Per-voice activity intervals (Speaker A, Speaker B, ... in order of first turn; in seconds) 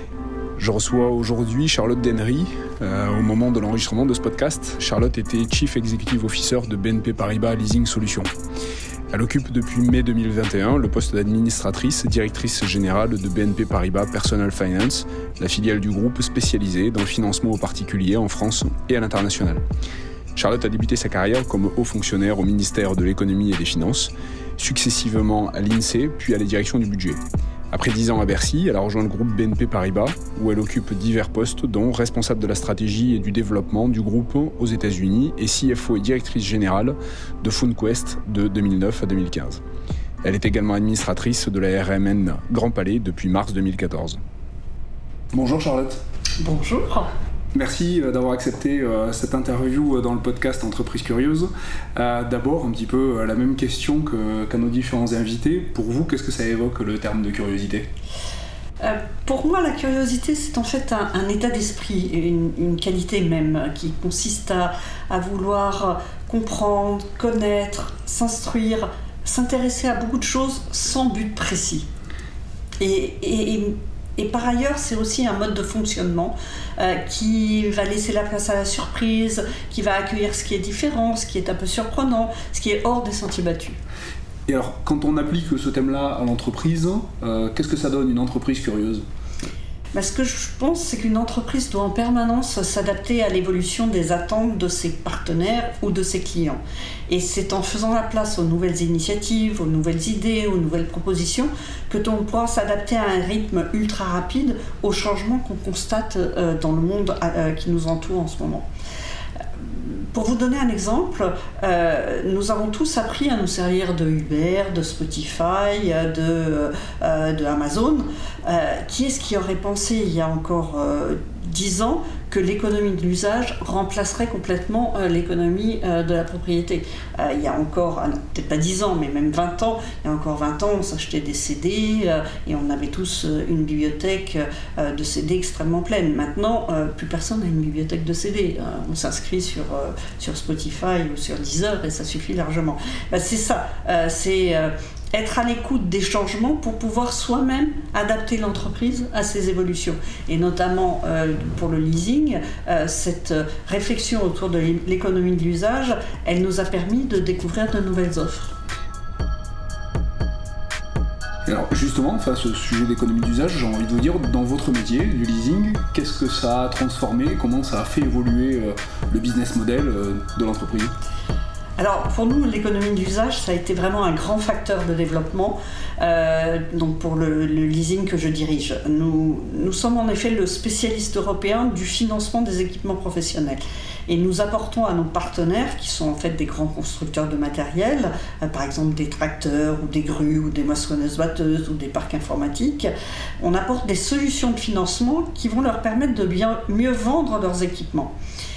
Speaker A: 0.6-8.3, 9.1-19.6, 20.4-27.2, 27.7-39.6, 40.2-44.2, 45.3-46.0, 47.5-57.9, 84.5-89.0, 161.5-170.9
Speaker B: 46.4-47.1, 58.8-71.9, 72.8-83.8, 90.0-108.7, 109.6-158.6, 171.8-192.9, 193.4-198.1